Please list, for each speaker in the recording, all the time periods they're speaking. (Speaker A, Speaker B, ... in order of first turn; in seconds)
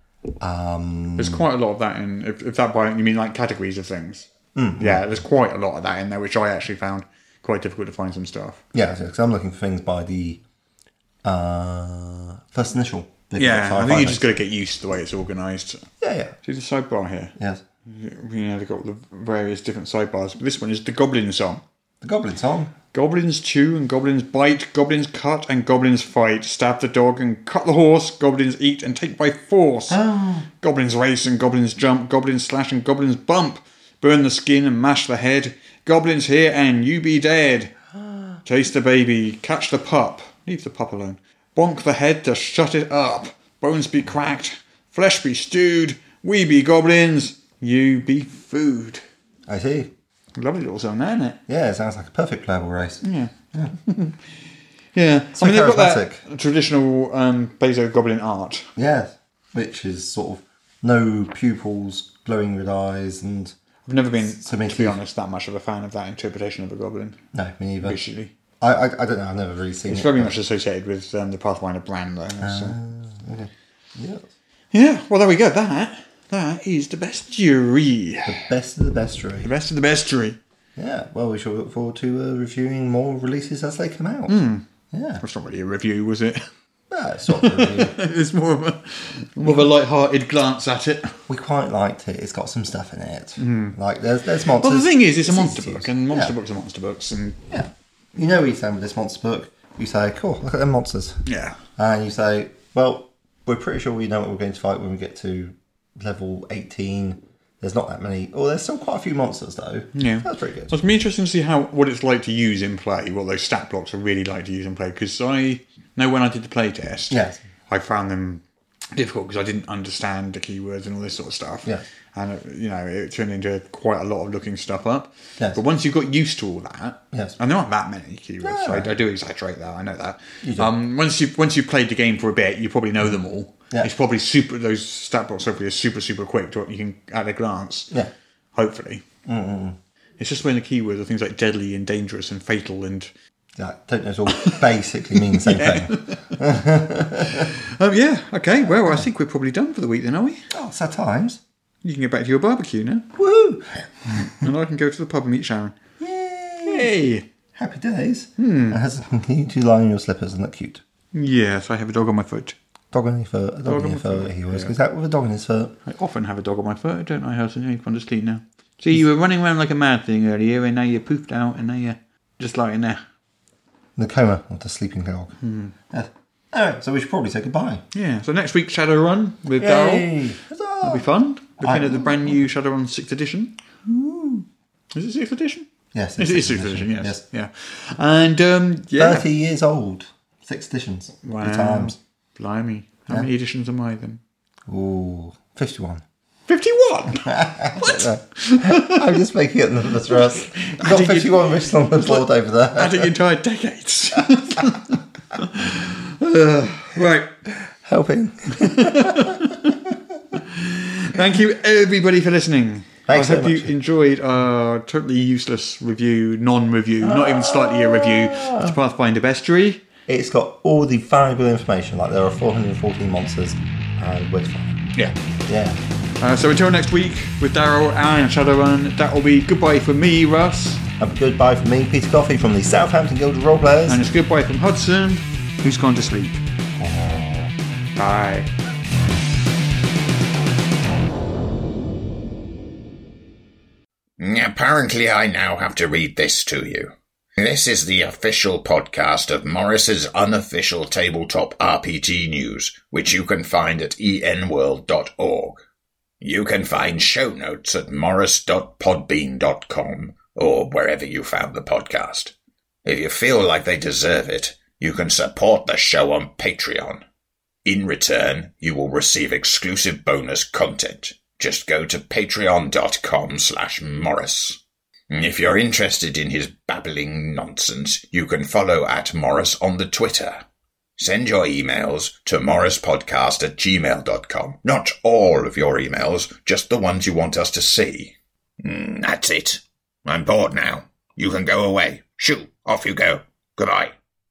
Speaker A: 0.4-1.4, 4.5-5.1, 8.7-10.4, 11.2-14.3, 16.0-16.4, 17.4-17.6, 22.0-22.7, 29.9-30.5, 49.5-49.9, 51.5-53.7, 55.3-56.2, 58.8-63.6, 64.3-65.0, 67.3-68.0, 68.6-70.3, 72.4-74.3, 78.3-79.5, 80.8-84.4, 84.9-85.2, 86.9-87.9, 89.4-89.7, 91.3-96.3, 97.5-101.2, 101.8-110.8, 117.1-117.4, 127.1-127.4, 128.4-128.9, 130.4-130.7, 139.2-139.8, 143.6-147.5, 148.6-149.1, 150.5-151.4, 153.2-154.5, 156.0-156.9, 157.6-160.8, 162.9-165.8, 174.0-175.4, 175.9-177.8, 179.6-181.1, 181.6-182.5, 183.9-184.4, 185.9-187.2, 189.0-192.0, 194.7-196.0, 197.2-203.1, 207.5-209.5, 213.1-213.7, 217.0-218.8, 220.1-224.9, 225.5-225.8, 231.0-234.1, 236.8-237.5
Speaker B: 1.2-4.3, 4.8-8.6, 13.4-15.9, 16.4-17.3, 17.9-21.6, 22.9-30.0, 30.6-37.8, 38.5-49.0, 50.4-51.4, 53.0-54.2, 55.0-58.7, 63.9-67.2, 67.8-68.3, 69.9-72.8, 74.7-78.4, 79.4-80.4, 84.3-84.7, 85.2-86.5, 87.3-91.2, 93.4-93.8, 94.6-97.4, 101.3-101.6, 110.0-117.2, 117.7-118.4, 118.9-137.9, 138.6-139.1, 140.2-143.1, 145.2-146.4, 147.3-150.5, 151.8-153.1, 154.1-155.8, 156.7-157.2, 158.4-158.8, 161.1-162.6, 163.7-164.8, 165.8-173.0, 175.4-175.7, 177.9-180.2, 180.8-183.6, 184.9-189.3, 191.2-194.2, 196.5-199.2, 200.1-207.3, 208.5-209.8, 210.3-219.8, 226.2-230.8, 233.9-236.4, 238.0-238.5
Speaker C: 244.2-255.6, 256.2-262.3, 262.9-267.0, 267.6-274.6, 275.1-280.4, 281.0-293.9